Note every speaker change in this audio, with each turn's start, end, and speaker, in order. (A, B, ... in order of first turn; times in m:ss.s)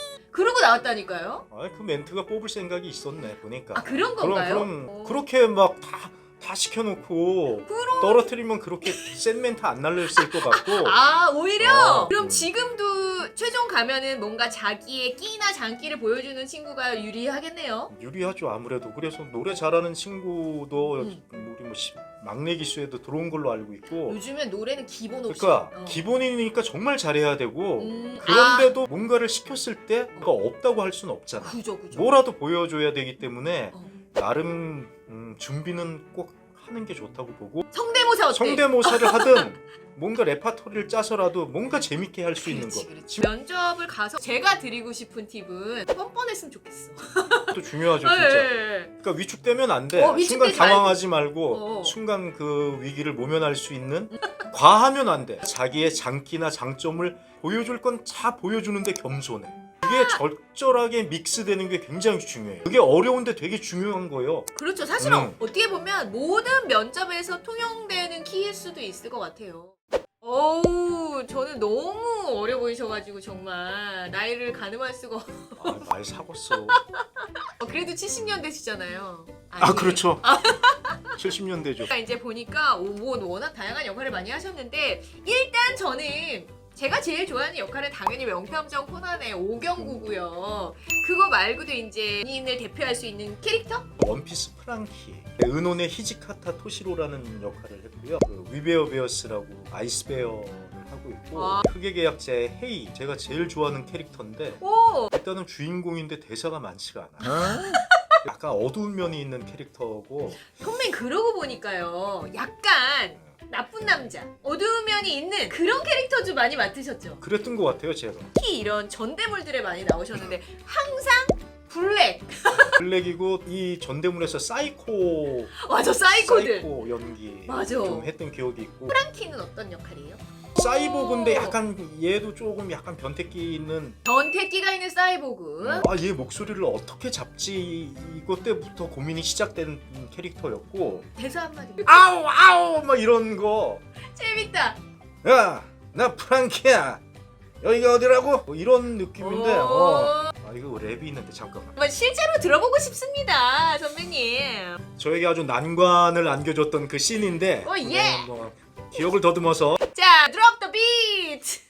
0:00.3-0:01.4 A
0:01.5-0:11.0 B
0:03.7-0:05.2 A
0:07.6-0:08.3 A
0:08.8-0:09.1 A
0:10.2-0:17.9 A
0:11.6-0:12.5 B
0:17.9-0:24.2 B
0:24.0-0:26.0 A
0:25.3-0:37.7 B
0:27.8-0:28.7 A
0:31.4-0:32.2 A
0:33.7-0:34.0 A
0:37.7-0:39.5 A
0:38.3-0:43.3 B
0:42.4-0:48.9 A
0:47.5-1:05.4 B
0:49.9-0:52.0 A
0:59.9-1:00.2 A
1:04.5-1:15.8 A
1:15.6-1:16.8 B
1:16.7-1:21.2 A
1:19.6-1:20.2 B
1:21.1-1:21.9 B
1:21.8-1:33.9 A
1:29.7-1:30.2 B
1:34.0-1:44.6 B
1:41.3-1:41.6 A
1:44.6-1:45.1 A
1:45.1-1:47.6 B
1:47.2-1:48.2 A
1:48.2-1:50.4 B
1:50.4-1:57.2 A
1:57.2-1:58.3 B
1:58.3-2:02.8 A
2:02.6-2:09.0 B
2:05.6-2:06.7 A
2:07.5-2:08.1 A
2:08.9-2:11.6 A
2:10.6-2:14.0 B
2:14.0-2:15.9 A
2:15.6-2:21.1 B
2:21.2-2:22.1 A
2:21.8-2:23.8 B
2:24.1-2:24.8 A
2:25.2-2:27.0 B
2:27.6-2:31.7 B
2:29.2-2:30.3 A
2:31.7-2:34.8 A
2:35.0-2:39.8 B
2:37.6-2:38.3 A
2:39.9-2:41.6 A